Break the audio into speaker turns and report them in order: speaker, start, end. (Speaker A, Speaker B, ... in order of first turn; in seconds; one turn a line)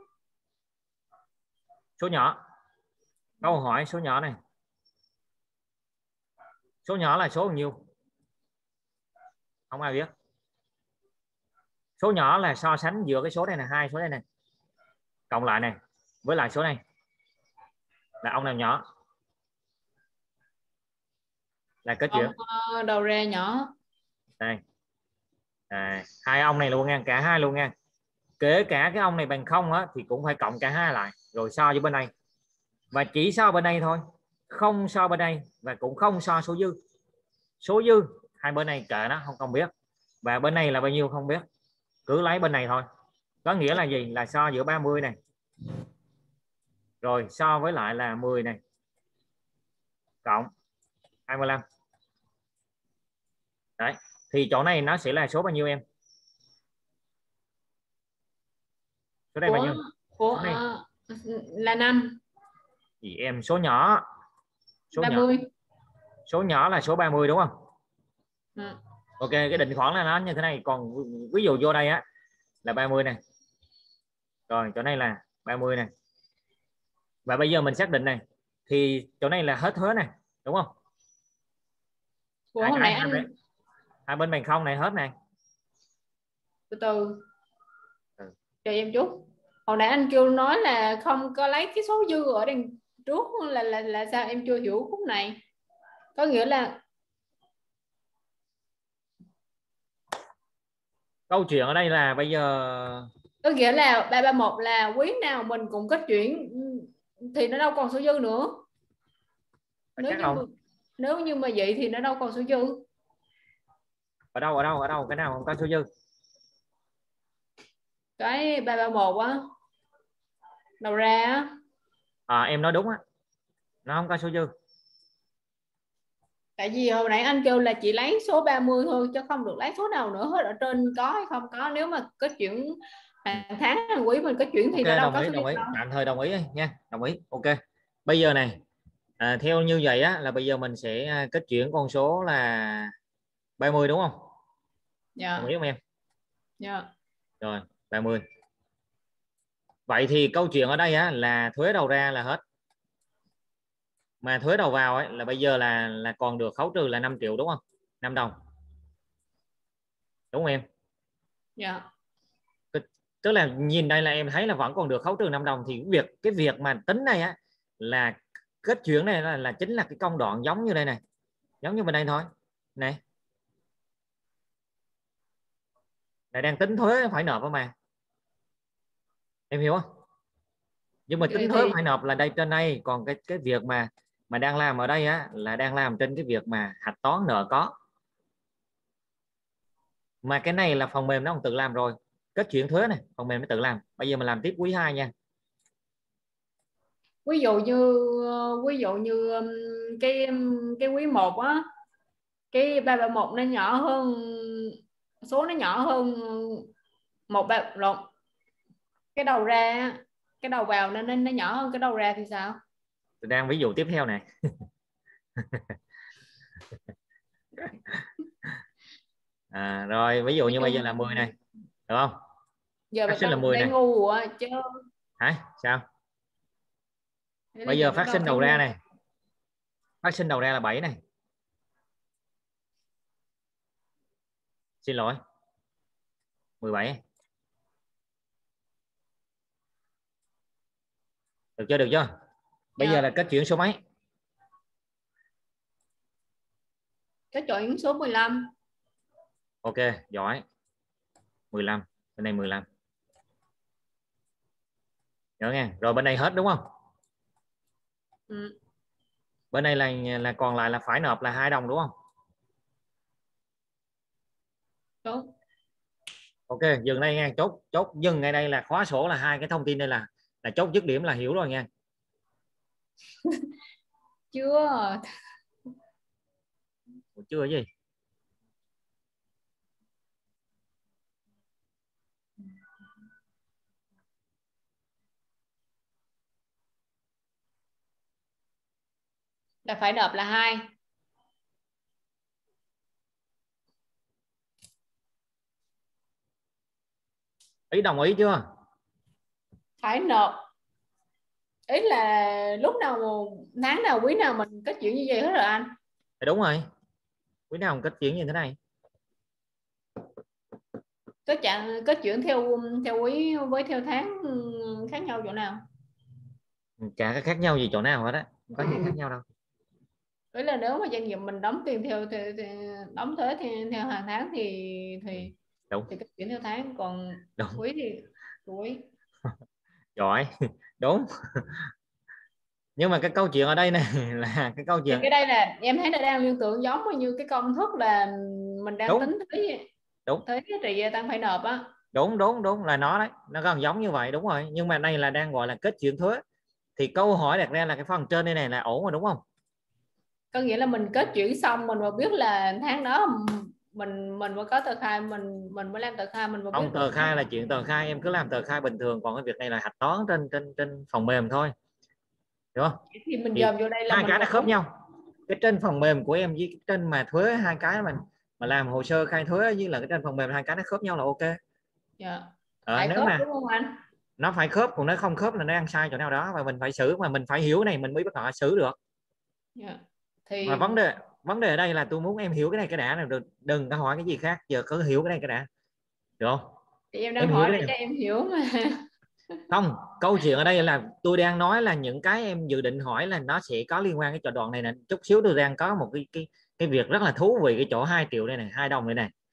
Speaker A: 2.0-2.4
Speaker A: 3.4-4.3
Speaker A: 6.8-7.7
Speaker A: 9.7-10.1
Speaker A: 12.0-14.2
Speaker A: 15.3-16.8
Speaker A: 18.2-18.8
Speaker A: 21.8-22.3
Speaker B: 22.1-23.7
Speaker A: 25.7-27.7
Speaker A: 28.4-32.1
Speaker A: 32.9-36.7
Speaker A: 37.6-39.7
Speaker A: 40.2-41.4
Speaker A: 42.1-42.8
Speaker A: 43.4-45.1
Speaker A: 47.0-48.6
Speaker A: 50.2-50.5
Speaker A: 51.3-51.6
Speaker A: 53.8-55.8
Speaker A: 59.3-59.8
Speaker B: 59.5-62.2
Speaker A: 60.3-60.6
Speaker A: 63.0-64.0
Speaker A: 64.9-65.2
Speaker B: 65.0-65.5
Speaker A: 66.3-67.5
Speaker A: 69.2-72.0
Speaker A: 72.6-73.2
Speaker A: 74.5-75.9
Speaker A: 77.2-80.7
Speaker B: 82.5-83.3
Speaker A: 82.6-83.3
Speaker A: 84.1-85.1
Speaker B: 86.7-87.2
Speaker B: 88.6-95.4
Speaker B: 96.1-96.8
Speaker A: 101.3-103.1
Speaker B: 103.4-108.6
Speaker A: 110.0-110.4
Speaker B: 110.0-112.8
Speaker A: 114.3-115.8
Speaker B: 118.2-119.4
Speaker B: 120.8-121.5
Speaker A: 122.3-123.0
Speaker A: 123.8-124.5
Speaker B: 126.6-135.8
Speaker A: 134.7-137.5
Speaker A: 138.1-138.6
Speaker A: 139.2-142.9
Speaker A: 143.6-144.2
Speaker B: 145.2-145.5
Speaker A: 145.4-145.8
Speaker B: 146.6-146.9
Speaker A: 147.4-148.2
Speaker A: 149.9-152.4
Speaker A: 154.2-158.3
Speaker A: 160.3-160.6
Speaker B: 161.6-161.8
Speaker A: 162.7-171.0
Speaker A: 171.6-173.0
Speaker A: 176.3-177.7
Speaker A: 179.5-179.8
Speaker A: 181.1-187.7
Speaker B: 181.2-181.8
Speaker A: 190.2-195.1
Speaker B: 197.2-201.6
Speaker B: 202.5-206.7
Speaker B: 207.3-208.1
Speaker B: 209.1-212.6
Speaker A: 213.2-214.2
Speaker A: 215.4-215.7
Speaker A: 219.5-221.3
Speaker B: 220.5-221.3
Speaker A: 221.9-222.2
Speaker B: 222.9-224.6
Speaker A: 223.1-223.7
Speaker A: 225.2-225.8
Speaker B: 227.6-228.6
Speaker A: 227.7-228.8
Speaker A: 230.0-231.0
Speaker A: 234.8-235.2
Speaker A: 236.6-237.0
Speaker A: 241.6-242.1
Speaker B: 242.8-243.0
Speaker A: 242.8-243.8
Speaker B: 247.3-248.5
Speaker A: 249.6-250.4
Speaker A: 251.5-252.6
Speaker A: 255.4-256.6
Speaker B: 258.3-258.5
Speaker A: 259.5-261.9
Speaker B: 265.0-265.3
Speaker A: 266.5-271.7
Speaker B: 274.3-275.1
Speaker A: 277.2-277.7
Speaker B: 289.6-290.6
Speaker A: 297.7-298.4
Speaker B: 299.8-300.4
Speaker B: 301.7-305.7
Speaker A: 306.2-306.6
Speaker A: 307.5-308.6
Speaker B: 311.2-315.6
Speaker A: 316.8-319.2
Speaker B: 320.3-325.3
Speaker B: 325.9-328.9
Speaker A: 329.9-331.7
Speaker A: 332.8-335.1
Speaker B: 334.9-339.7
Speaker B: 340.2-341.7
Speaker A: 341.9-346.2
Speaker A: 346.8-349.2
Speaker B: 350.3-357.1
Speaker A: 356.5-361.5
Speaker A: 362.5-362.8
Speaker B: 362.9-364.5
Speaker A: 363.3-364.7
Speaker A: 365.3-371.4
Speaker B: 372.0-373.8
Speaker A: 372.7-373.2
Speaker A: 374.2-378.8
Speaker B: 379.6-380.8
Speaker A: 380.4-385.5
Speaker B: 386.9-388.8
Speaker A: 387.2-387.7
Speaker A: 389.5-399.1